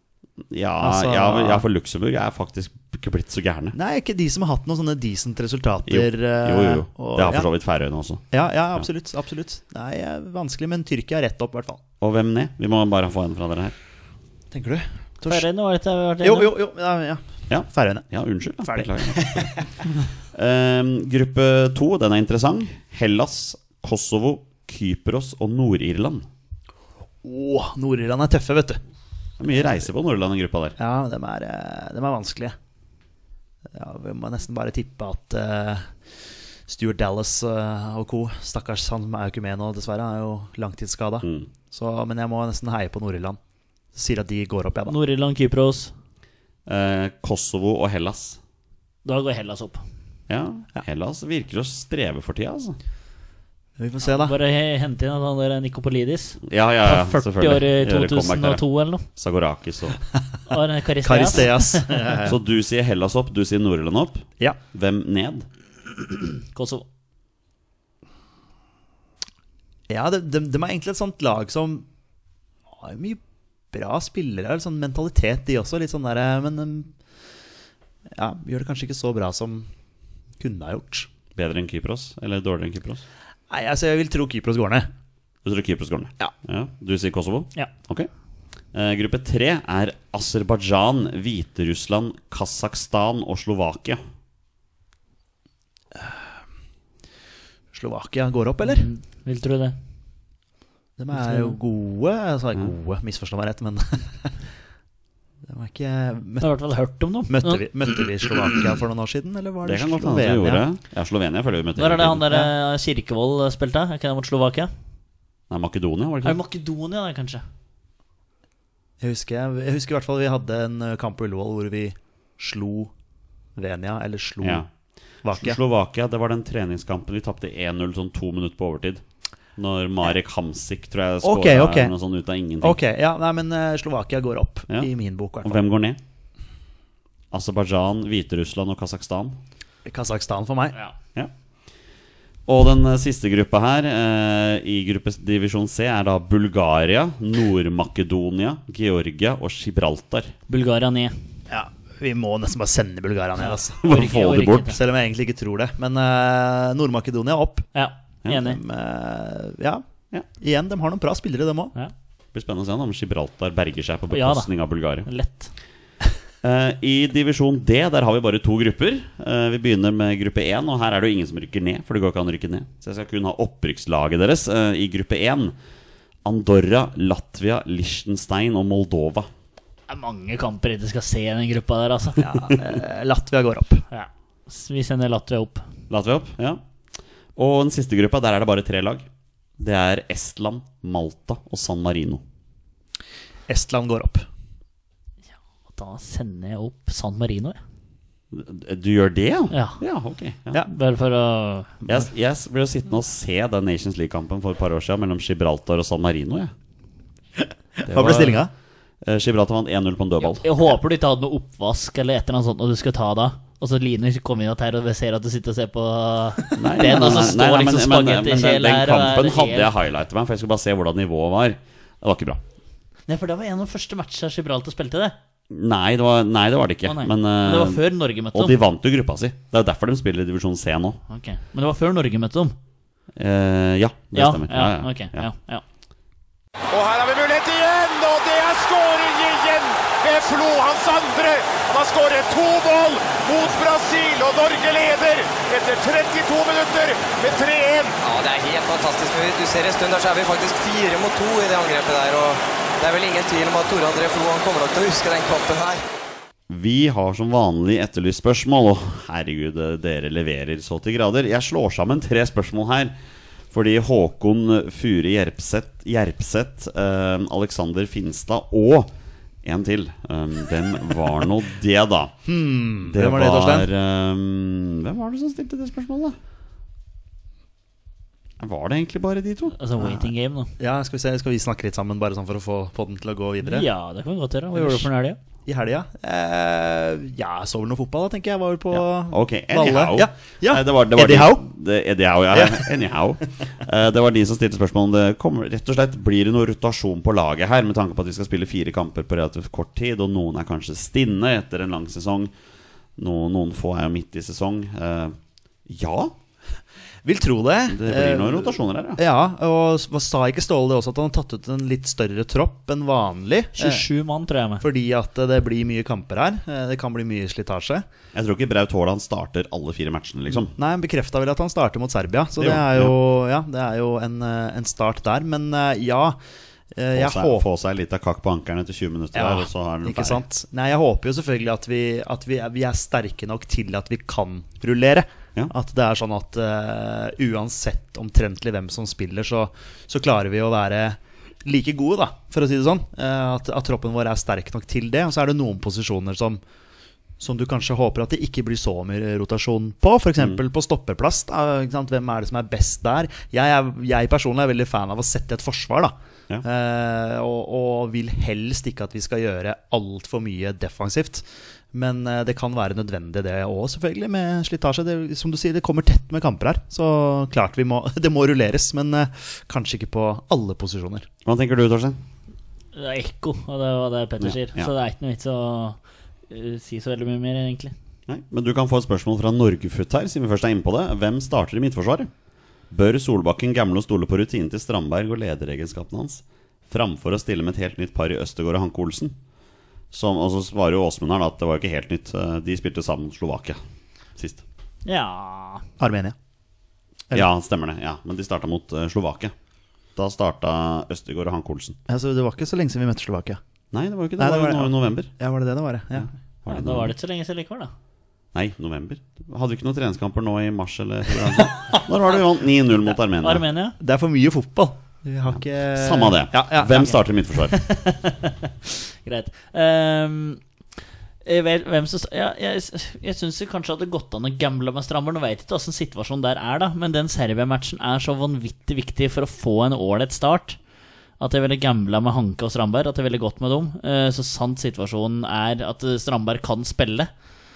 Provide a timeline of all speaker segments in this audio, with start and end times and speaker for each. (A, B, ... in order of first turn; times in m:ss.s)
0:00.5-0:03.8 A
0:00.8-0:01.6 B
0:03.7-0:07.5 B
0:05.9-0:08.2 A
0:08.3-0:11.8 B
0:12.0-0:13.8 A
0:14.5-0:15.5 B
0:15.3-0:16.5 C
0:16.2-0:18.1 B
0:17.5-0:19.5 A
0:18.6-0:19.9 B
0:20.3-0:26.3 A
0:27.2-0:28.8 B
0:29.4-0:30.8 A
0:30.8-0:32.6 B
0:33.7-0:35.9 B
0:36.7-0:43.4 B
0:41.2-0:41.5 A
0:43.9-0:45.0 B
0:44.9-0:45.9 C
0:46.7-0:48.4 A
0:49.0-0:49.8 C
0:50.3-0:52.8 A
0:53.8-0:54.4 B
0:54.0-0:59.0 C
0:56.4-1:00.0 A
1:00.5-1:02.2 C
1:01.0-1:02.4 B
1:02.2-1:05.5 A
1:06.3-1:06.8 C
1:09.9-1:11.9 B
1:12.8-1:13.2 B
1:13.7-1:16.9 B
1:18.2-1:19.7 B
1:20.4-1:21.1 B
1:21.4-1:23.0 A
1:23.5-1:24.9 B
1:25.4-1:28.1 A
1:28.7-1:34.0 A
1:37.7-1:38.9 B
1:38.6-1:39.8 C
1:41.0-1:44.3 B
1:41.1-1:41.6 C
1:45.5-1:46.5 B
1:46.4-1:48.3 C
1:47.3-1:50.6 B
1:49.6-1:52.3 A
1:51.8-1:54.7 C
1:55.5-1:56.4 A
1:56.2-1:57.4 C
1:59.0-2:02.9 B
2:03.6-2:04.6 B
2:04.4-2:04.7 A
2:05.2-2:05.6 B
2:05.3-2:09.0 A
2:09.6-2:12.8 A
2:11.2-2:11.9 B
2:12.6-2:15.6 B
2:15.4-2:16.0 A
2:17.3-2:19.4 A
2:19.8-2:20.8 B
2:22.5-2:30.3 A
2:30.5-2:31.2 C
2:31.5-2:34.1 B
2:33.8-2:34.7 A
2:33.8-2:34.8 C
2:34.6-2:37.7 B
2:37.8-2:38.6 C
2:38.4-2:39.8 B
2:40.4-2:41.7 B
2:42.3-2:45.1 A
2:44.1-2:44.5 C
2:45.0-2:45.5 C
2:46.4-2:55.6 A
2:56.2-2:59.3 A
2:59.9-3:02.3 C
3:02.2-3:03.8 B
3:03.9-3:05.7 C
3:05.9-3:06.6 A
3:07.4-3:09.1 A
3:09.6-3:12.2 A
3:13.5-3:14.2 B
3:15.8-3:17.6 C
3:18.3-3:20.6 A
3:19.5-3:19.8 C
3:20.7-3:21.7 C
3:21.9-3:26.5 A
3:27.8-3:28.5 B
3:27.9-3:28.5 A
3:29.0-3:30.5 A
3:30.2-3:39.7 C
3:36.6-3:42.4 A
3:43.1-3:45.2 C
3:45.5-3:47.8 A
3:46.9-3:48.6 C
3:48.3-3:51.0 A
3:51.1-3:52.6 C
3:53.2-3:55.3 A
3:54.1-3:55.6 C
3:56.7-4:08.0 D
4:08.0-4:15.8 E
4:16.5-4:22.9 A
4:23.5-4:28.9 A
4:29.4-4:32.2 A
4:32.3-4:33.7 B
4:32.9-4:36.2 A
4:38.4-4:39.6 A
4:39.6-4:40.5 C
4:39.8-4:43.7 B
4:43.4-4:45.2 C
4:44.5-4:44.9 B
4:45.5-4:51.5 B
4:48.7-5:02.3 A
4:52.3-4:52.7 B
5:03.0-5:06.2 A
5:07.0-5:13.8 B
5:07.7-5:09.0 A
5:13.6-5:14.6 C
5:14.6-5:17.8 B
5:18.1-5:20.5 A
5:20.4-5:26.2 B
5:22.4-5:23.0 A
5:26.7-5:27.4 B
5:27.0-5:30.2 A
5:29.2-5:46.4 B
5:47.2-6:11.1 B
6:11.2-6:12.0 A
6:12.8-6:17.7 C
6:14.2-6:14.7 A
6:18.1-6:22.1 A
6:22.7-6:29.2 A
6:29.9-6:33.6 A
6:34.2-6:34.4 A
6:34.8-6:35.6 C
6:35.8-6:36.2 B
6:37.1-6:39.3 A
6:40.0-6:41.8 A
6:41.9-6:43.4 B
6:43.7-6:45.1 A
6:44.2-6:46.1 B
6:46.0-6:46.9 A
6:46.5-6:47.7 C
6:48.3-6:53.4 A
6:53.2-6:53.8 C
6:53.8-6:56.9 B
6:55.8-6:57.6 A
6:57.5-7:00.4 C
7:01.2-7:10.6 C
7:11.2-7:17.1 C